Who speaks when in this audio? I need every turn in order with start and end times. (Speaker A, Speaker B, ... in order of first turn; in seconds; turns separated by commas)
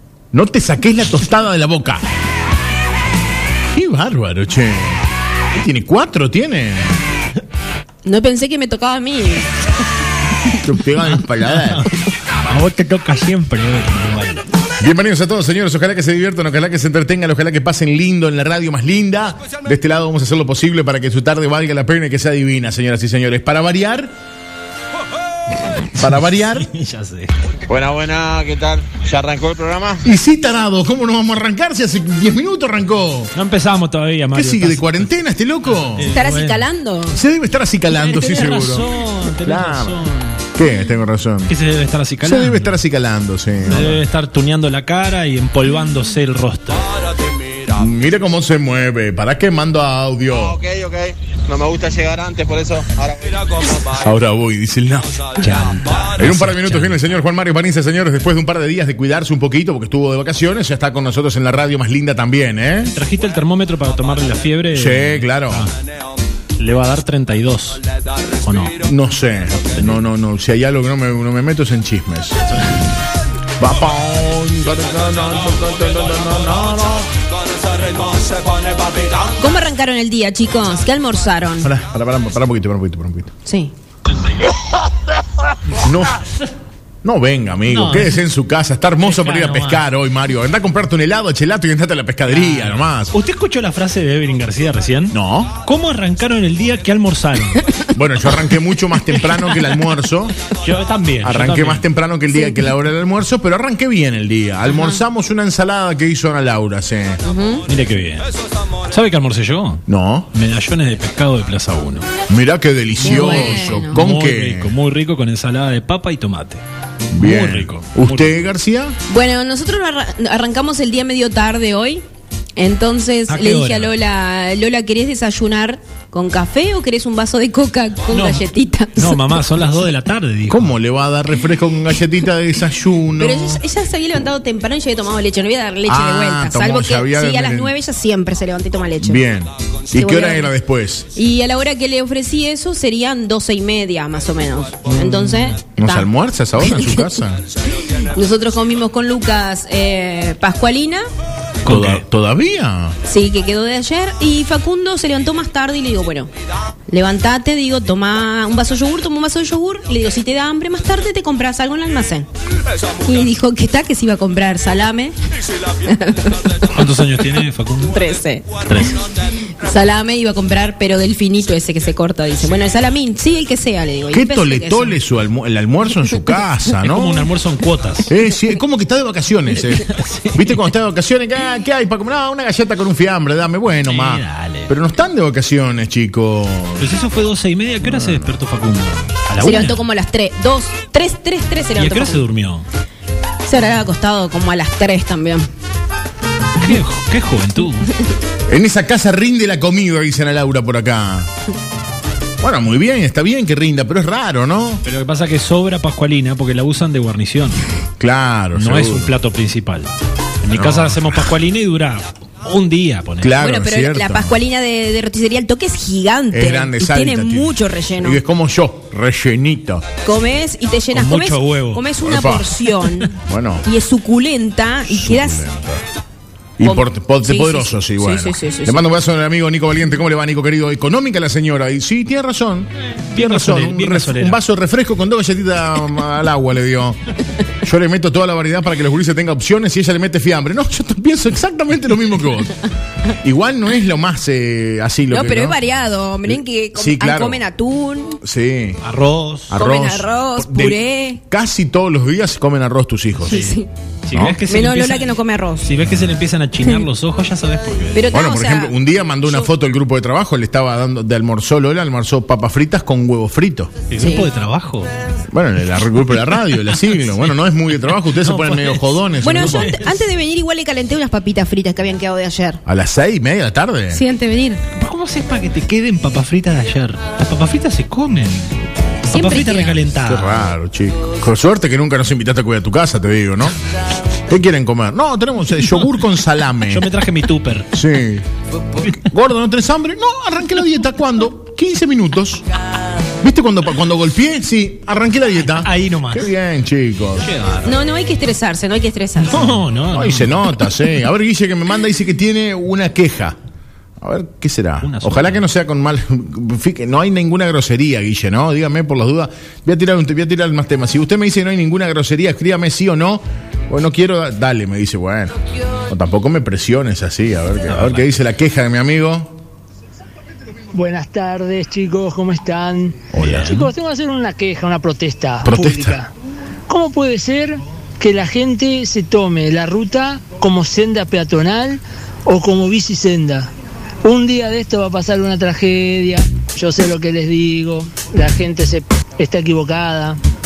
Speaker A: 0.3-2.0, Speaker A: 3.7-7.0, Speaker B: 8.0-9.5, Speaker A: 10.5-11.8, Speaker C: 11.4-14.4, Speaker A: 14.8-24.1, Speaker A: 25.9-26.7, Speaker C: 26.1-27.3, Speaker D: 27.7-30.1, Speaker A: 30.0-33.3, Speaker C: 33.4-36.7, Speaker A: 34.3-36.2, Speaker B: 36.1-37.2, Speaker A: 37.1-38.9, Speaker C: 37.9-40.4, Speaker A: 39.4-40.0, Speaker A: 40.5-41.5, Speaker C: 41.5-42.8, Speaker A: 42.2-44.0, Speaker C: 43.6-46.9, Speaker A: 47.7-50.6, Speaker D: 50.3-53.8, Speaker A: 53.8-63.0, Speaker C: 55.4-57.1, Speaker C: 62.9-65.7, Speaker A: 64.7-65.7, Speaker C: 66.6-67.8, Speaker C: 68.4-68.7, Speaker A: 68.8-72.4, Speaker A: 73.6-77.1, Speaker B: 79.4-81.7, Speaker A: 81.6-83.3, Speaker B: 83.5-83.7, Speaker A: 85.8-86.2, Speaker A: 87.0-93.2, Speaker C: 87.7-88.2, Speaker C: 89.0-89.9, Speaker C: 92.3-97.8, Speaker A: 95.1-95.5, Speaker A: 97.9-100.4, Speaker C: 99.4-99.7, Speaker C: 100.5-101.8, Speaker A: 101.2-107.2, Speaker B: 102.4-102.7, Speaker B: 104.7-105.0, Speaker B: 107.2-107.6, Speaker C: 107.7-108.3, Speaker C: 108.9-112.1, Speaker A: 109.9-110.3, Speaker A: 112.3-114.7, Speaker B: 113.0-114.0, Speaker C: 113.1-116.6, Speaker A: 117.1-119.0, Speaker C: 117.2-118.4, Speaker B: 119.1-122.0, Speaker B: 122.5-129.2, Speaker C: 123.3-123.9, Speaker C: 128.1-128.4, Speaker C: 129.0-130.7, Speaker A: 130.5-133.6, Speaker B: 133.2-139.3, Speaker A: 135.8-137.7, Speaker A: 139.0-141.1, Speaker B: 139.9-140.5, Speaker B: 141.2-147.2, Speaker A: 144.8-147.4, Speaker B: 147.8-151.0, Speaker C: 151.7-152.0, Speaker A: 151.7-153.0, Speaker B: 153.1-156.3, Speaker B: 156.9-162.3, Speaker B: 163.0-166.6, Speaker C: 166.7-168.0, Speaker B: 167.9-168.9, Speaker C: 168.6-169.0, Speaker B: 169.6-175.0, Speaker A: 174.1-177.3, Speaker C: 176.7-178.1, Speaker A: 178.1-186.9, Speaker C: 179.6-180.7, Speaker C: 183.8-184.7, Speaker C: 186.8-189.8, Speaker A: 187.8-188.3, Speaker B: 189.4-192.2, Speaker C: 191.7-192.7, Speaker B: 193.4-195.5, Speaker C: 196.6-197.9, Speaker A: 198.5-201.3, Speaker A: 202.4-204.8, Speaker C: 204.8-207.6, Speaker A: 208.0-209.2, Speaker C: 208.5-209.9, Speaker C: 210.4-213.3, Speaker A: 210.5-211.3, Speaker A: 213.2-214.4, Speaker B: 213.4-218.2, Speaker A: 216.3-219.8, Speaker B: 220.0-223.1, Speaker C: 220.9-221.9, Speaker A: 222.0-222.5, Speaker C: 222.8-223.1, Speaker A: 223.1-223.7, Speaker B: 223.7-225.4, Speaker A: 224.8-225.8, Speaker A: 226.6-237.1, Speaker B: 226.6-228.8, Speaker C: 233.1-234.4, Speaker A: 237.6-242.6, Speaker A: 243.1-245.6, Speaker B: 245.1-248.2, Speaker A: 246.2-247.4, Speaker A: 248.2-248.8, Speaker C: 248.8-249.5, Speaker A: 249.5-253.5, Speaker B: 249.6-251.2, Speaker B: 253.2-253.7, Speaker C: 253.3-258.0, Speaker A: 254.1-254.4, Speaker B: 254.5-255.7, Speaker B: 257.9-259.5, Speaker A: 258.1-263.7, Speaker C: 263.9-264.9, Speaker B: 264.0-264.3, Speaker A: 265.3-269.8, Speaker C: 266.5-267.2, Speaker C: 267.8-269.9, Speaker B: 269.2-272.6, Speaker A: 272.6-274.0, Speaker B: 273.9-274.6, Speaker C: 274.7-280.5, Speaker B: 279.1-279.8, Speaker A: 280.0-283.6, Speaker A: 284.3-286.9, Speaker C: 286.7-287.7, Speaker A: 287.7-288.2, Speaker A: 288.8-292.4, Speaker A: 293.2-297.3, Speaker C: 295.5-296.3, Speaker C: 297.2-297.8, Speaker B: 297.6-299.6, Speaker C: 299.2-300.5, Speaker A: 299.9-303.4, Speaker A: 304.0-315.4, Speaker C: 304.8-305.4, Speaker A: 315.9-319.3, Speaker C: 317.7-318.2, Speaker E: 320.7-326.1, Speaker A: 323.1-323.6, Speaker C: 323.2-323.6, Speaker A: 325.4-326.0, Speaker E: 326.7-333.5, Speaker E: 334.0-340.2